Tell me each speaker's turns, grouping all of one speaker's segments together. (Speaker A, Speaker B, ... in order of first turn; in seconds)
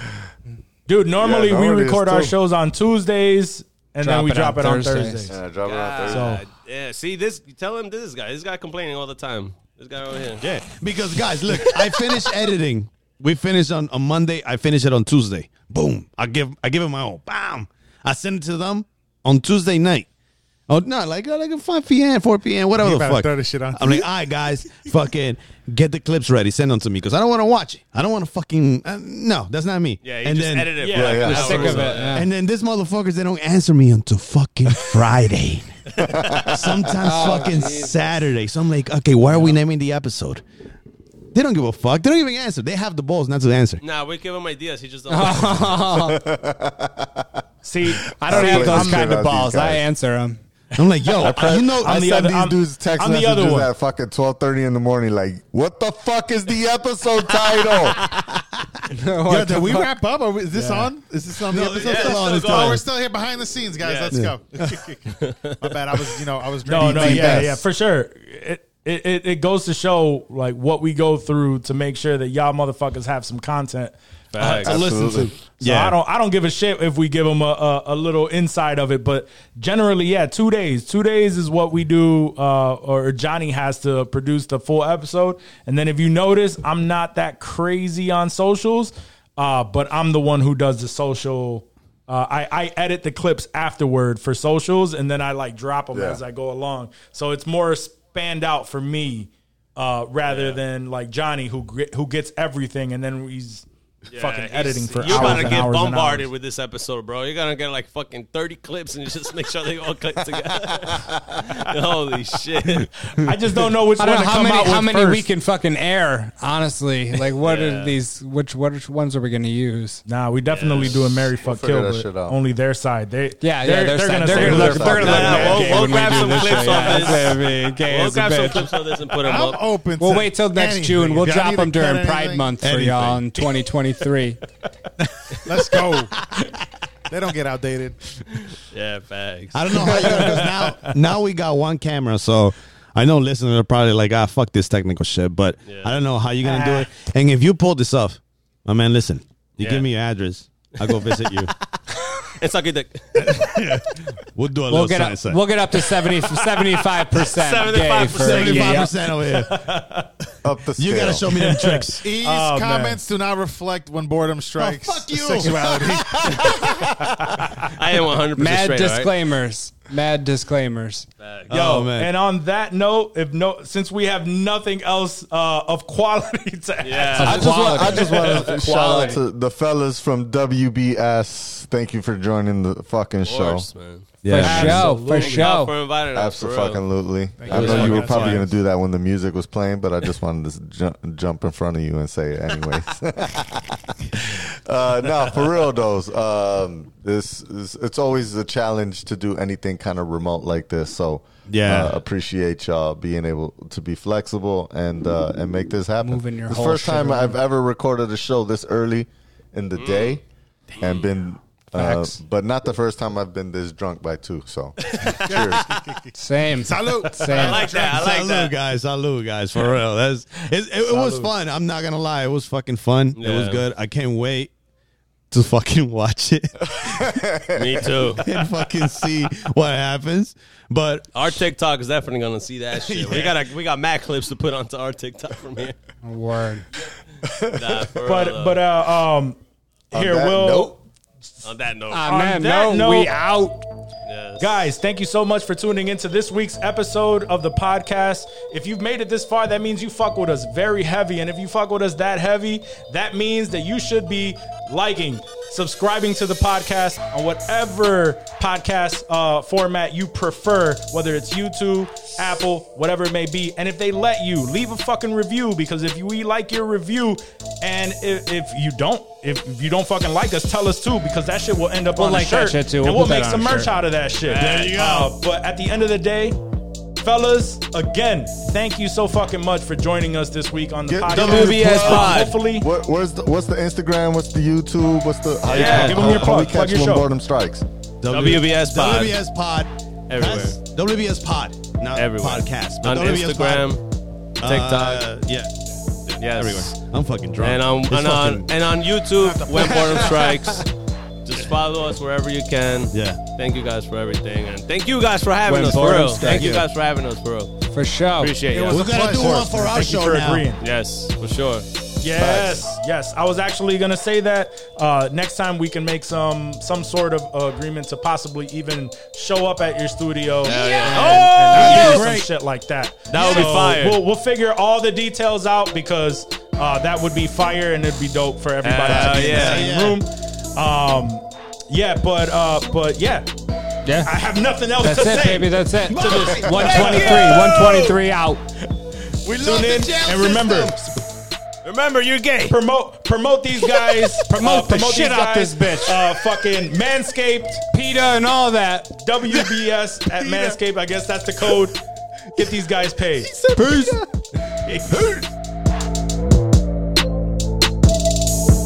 Speaker A: 0.9-5.4, 6.0-6.4, 30.8-32.1, 47.6-49.2, 50.8-53.7, 66.6-106.3, 113.1-115.3, 120.0-127.2, 139.9-140.9, 159.1-160.1, 161.3-163.0, 165.4-165.8, 167.2-167.7, 171.5-179.2, 184.3-185.6, 220.9-221.3, 238.0-239.4, 239.9-240.8, 242.0-243.1, 244.4-276.4, 277.0-282.7, 285.5-287.1, 308.5-310.6, 312.0-333.3, 334.0-337.7, 339.2-340.8, 342.5-347.6, 348.9-351.8, 352.4-353.3
Speaker B: 1.2-2.3, 5.3-6.3, 30.9-31.6, 36.1-36.6, 45.9-47.4, 48.0-49.8, 51.2-58.0, 66.7-67.6, 74.6-75.3, 95.9-96.2, 121.4-122.3, 124.3-125.7, 160.4-161.3, 166.0-167.2, 177.2-183.7, 186.1-210.2, 210.8-215.7, 226.8-229.3, 237.2-237.9, 239.9-240.8, 280.9-287.6, 312.2-312.5
Speaker C: 4.0-5.3, 31.1-32.3, 37.0-38.0, 45.1-46.2, 48.1-50.4, 58.9-59.9, 114.0-120.0, 123.4-128.8, 130.0-134.4, 146.5-146.8, 154.7-158.9, 168.3-171.1, 177.2-178.2, 184.3-185.7, 206.0-207.4, 211.8-212.2, 216.1-217.7, 236.0-236.7, 241.9-243.7, 271.9-273.8, 305.5-306.4, 307.7-308.4, 333.8-334.1, 334.8-338.4, 344.3-346.1, 347.7-349.0, 353.5-354.0
Speaker D: 5.6-10.4, 11.5-12.3, 30.0-32.2, 35.9-36.6, 43.8-45.7, 57.4-58.3, 61.7-62.8, 63.8-64.2, 65.2-65.7, 74.3-74.8, 100.3-100.6, 104.1-112.9, 117.4-117.9, 120.5-121.0, 124.8-129.6, 138.5-140.5, 145.6-145.9, 149.6-149.8, 150.8-151.2, 152.3-153.5, 156.2-158.9, 167.7-169.1, 171.2-171.8, 176.8-178.6, 183.2-186.8, 187.4-188.5, 209.8-210.2, 210.7-211.1, 214.9-215.6, 217.3-218.5, 223.2-223.7, 227.5-228.3, 231.1-235.8, 237.5-238.6, 241.4-242.1, 244.1-244.7, 274.2-275.1, 281.1-282.4, 285.5-286.3, 288.1-289.2, 290.1-290.6, 291.9-293.8, 294.4-295.1, 296.2-296.8, 297.4-300.7, 301.2-307.5, 308.2-308.9, 310.6-311.6, 320.4-322.1, 323.1-324.0, 328.6-329.7, 341.6-342.6
Speaker E: 10.4-20.1, 20.7-31.0, 31.6-40.4, 41.3-43.8, 50.8-52.1, 61.5-62.9, 64.1-64.3, 75.6-76.0, 132.6-133.5, 139.5-151.5, 153.1-155.4, 158.1-159.7, 160.8-162.0, 164.6-166.6, 171.5-172.1, 184.2-184.9, 187.5-187.9, 201.5-202.0, 217.8-224.5, 225.3-227.1, 228.2-231.4, 232.7-233.4, 274.4-275.1, 281.1-282.0, 288.0-293.8, 294.4-295.5, 296.1-298.5, 302.9-303.2, 305.5-306.7, 308.7-310.5, 320.4-322.3, 323.1-323.5, 328.8-330.0, 335.9-337.9, 339.2-340.9, 343.7-344.1, 349.2-350.6, 353.2-354.0, 354.6-355.3
Speaker F: 22.8-24.9, 59.2-67.6, 129.2-132.5, 135.4-136.2, 137.1-138.0, 162.0-166.7, 187.4-188.5, 215.0-218.0, 299.2-300.4, 308.7-309.5